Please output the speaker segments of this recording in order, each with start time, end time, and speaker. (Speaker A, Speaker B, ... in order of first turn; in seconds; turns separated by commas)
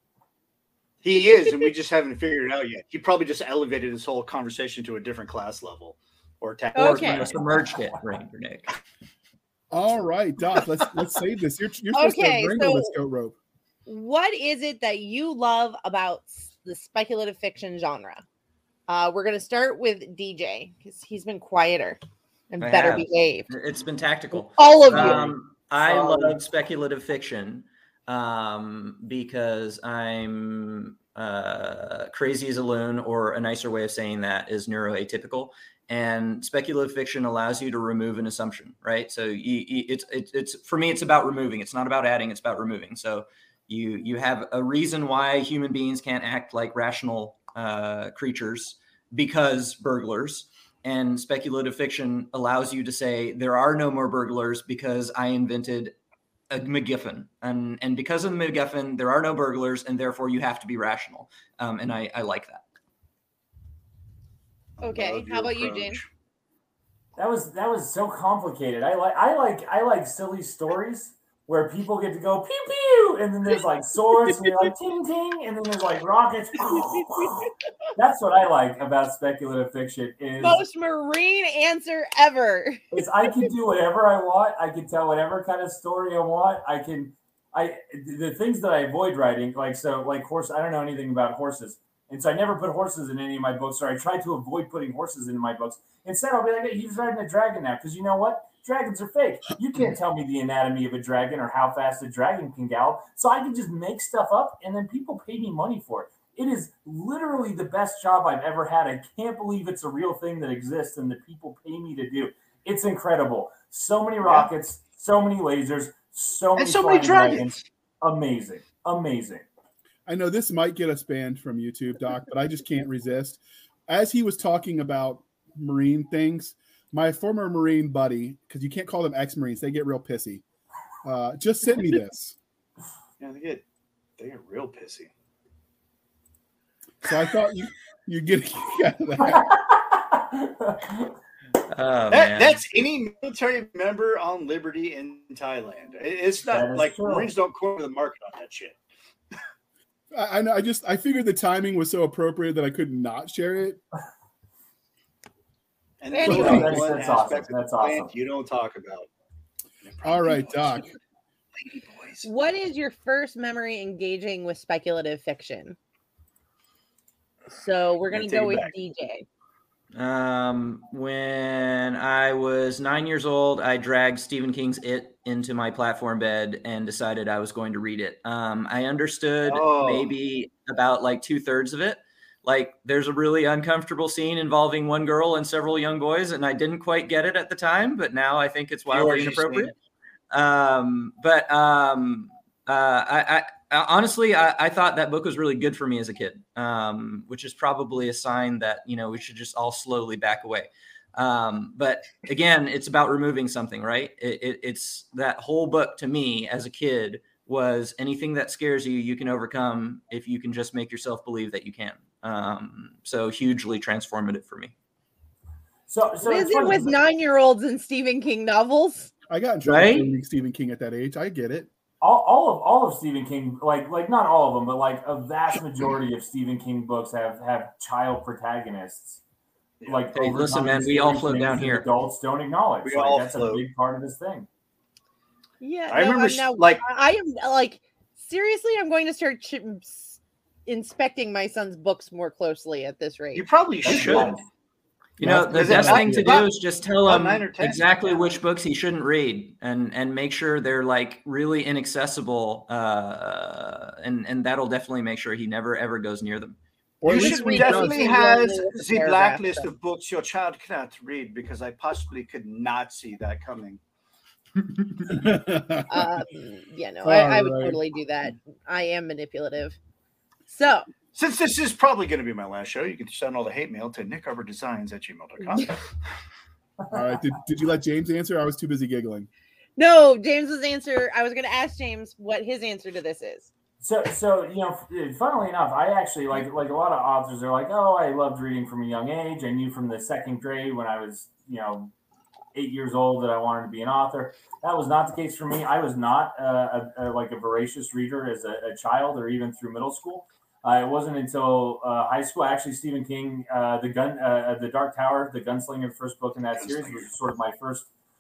Speaker A: 1.0-7.5, Speaker B: 6.8-7.3, Speaker C: 6.8-8.8, Speaker D: 9.7-13.4, Speaker B: 11.9-12.9, Speaker B: 13.9-18.2, Speaker B: 18.9-22.0, Speaker B: 22.5-23.5, Speaker C: 22.6-56.0, Speaker B: 24.6-25.2, Speaker E: 24.9-26.4, Speaker C: 56.5-62.6, Speaker A: 64.8-66.1, Speaker B: 64.8-66.0, Speaker E: 67.2-80.6, Speaker B: 80.4-82.8, Speaker E: 82.9-119.4, Speaker A: 114.2-114.5, Speaker A: 116.6-117.7, Speaker D: 120.1-130.4, Speaker D: 131.0-132.4, Speaker A: 133.2-133.6, Speaker A: 134.2-135.1, Speaker D: 137.0-139.4, Speaker E: 139.2-141.1, Speaker C: 141.7-142.6, Speaker A: 142.1-148.8, Speaker E: 146.5-147.3, Speaker D: 150.1-153.8, Speaker A: 156.0-159.1, Speaker B: 156.1-156.8, Speaker E: 156.2-158.1, Speaker D: 156.3-156.9, Speaker A: 159.8-160.9, Speaker D: 160.0-160.9, Speaker A: 161.6-162.3, Speaker B: 162.2-165.8, Speaker B: 167.5-169.3, Speaker A: 168.1-168.7, Speaker C: 169.9-189.7, Speaker A: 179.5-180.1, Speaker A: 188.9-189.7, Speaker C: 190.3-214.7, Speaker E: 215.9-217.0, Speaker B: 216.2-219.1, Speaker D: 219.3-221.7, Speaker C: 219.7-220.1, Speaker E: 222.0-229.2, Speaker A: 229.8-230.1, Speaker E: 229.9-234.5, Speaker C: 230.1-231.9, Speaker A: 232.8-233.6, Speaker B: 235.6-243.5, Speaker A: 235.9-236.8, Speaker A: 243.3-244.4, Speaker E: 243.8-244.4, Speaker C: 243.9-244.3, Speaker C: 245.2-256.6, Speaker D: 245.2-246.4, Speaker A: 245.4-246.5, Speaker A: 247.0-248.4, Speaker D: 257.0-258.1, Speaker A: 257.0-263.8, Speaker B: 257.1-259.7, Speaker D: 265.1-266.1, Speaker B: 265.9-269.8, Speaker D: 267.0-267.8, Speaker B: 270.5-270.9, Speaker A: 271.1-276.0, Speaker D: 276.9-279.3, Speaker B: 279.8-283.5, Speaker E: 283.8-291.9, Speaker E: 292.5-307.9